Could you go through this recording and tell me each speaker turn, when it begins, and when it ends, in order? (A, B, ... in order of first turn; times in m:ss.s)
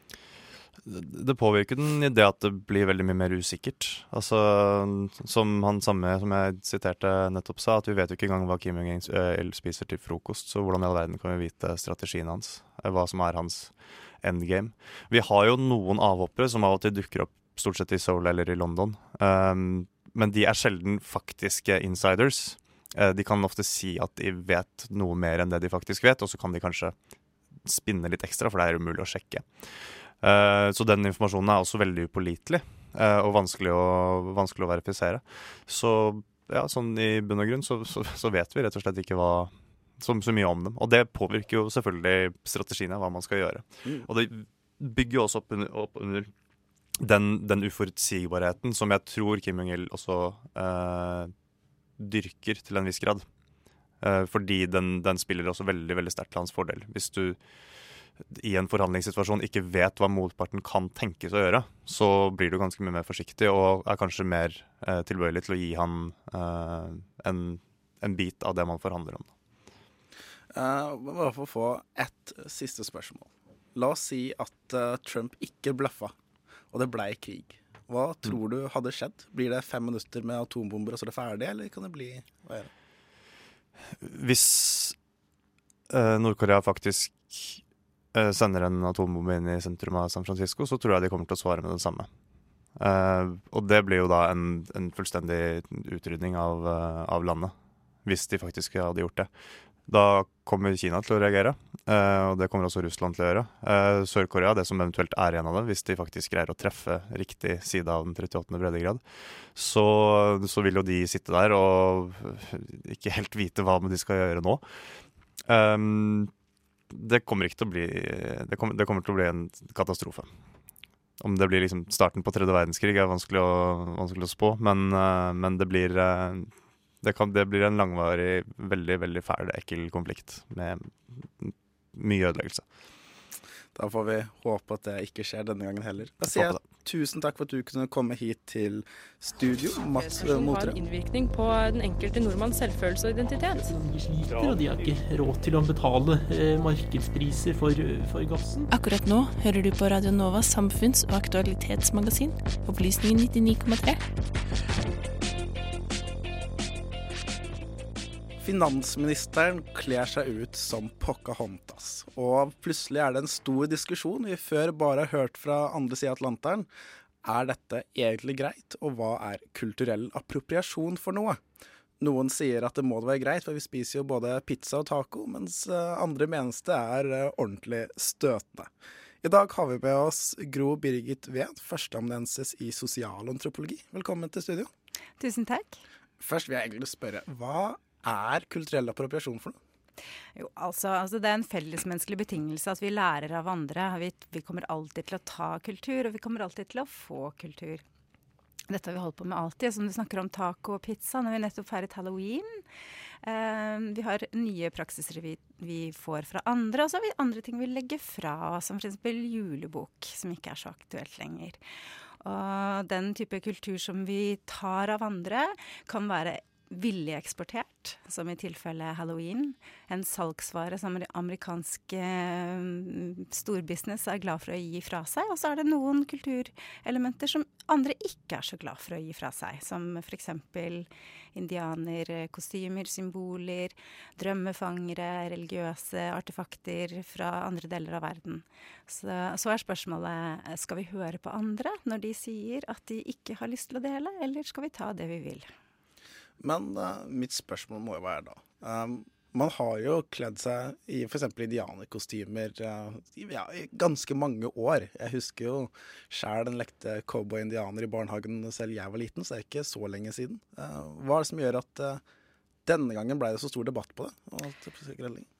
0:00.8-0:26.9 A
0:27.6-0:29.6 A
0:30.2-0:46.3 A
0:47.0-0:51.3 A
0:52.0-0:53.2 A
0:54.0-0:57.4 A
0:58.3-1:09.3 A
1:10.5-1:16.1 B
1:16.7-1:22.7 B
1:24.0-1:24.9 A
1:25.9-1:27.6 A
1:28.1-1:32.1 A
1:32.8-1:37.5 A
1:38.0-1:39.3 A
1:39.9-1:49.0 A
1:49.5-1:54.6 A
1:55.4-1:56.3 A
1:56.9-2:00.3 A
2:01.2-2:06.5 A
2:07.0-2:12.6 A
2:13.7-2:20.8 B
2:16.2-2:16.6 A
2:19.8-2:23.6 C
2:23.5-2:28.7 D
2:28.7-2:34.0 E
2:38.4-2:46.7 B
2:47.2-2:51.4 B
2:52.0-2:58.7 B
2:59.2-3:04.7 B
3:05.2-3:05.8 F
3:06.2-3:09.6 B
3:10.4-3:17.8 F
3:18.7-3:22.6 F
3:23.2-3:31.6 F
3:32.2-4:05.5 F
4:06.4-4:22.0 B
4:22.6-4:25.3 B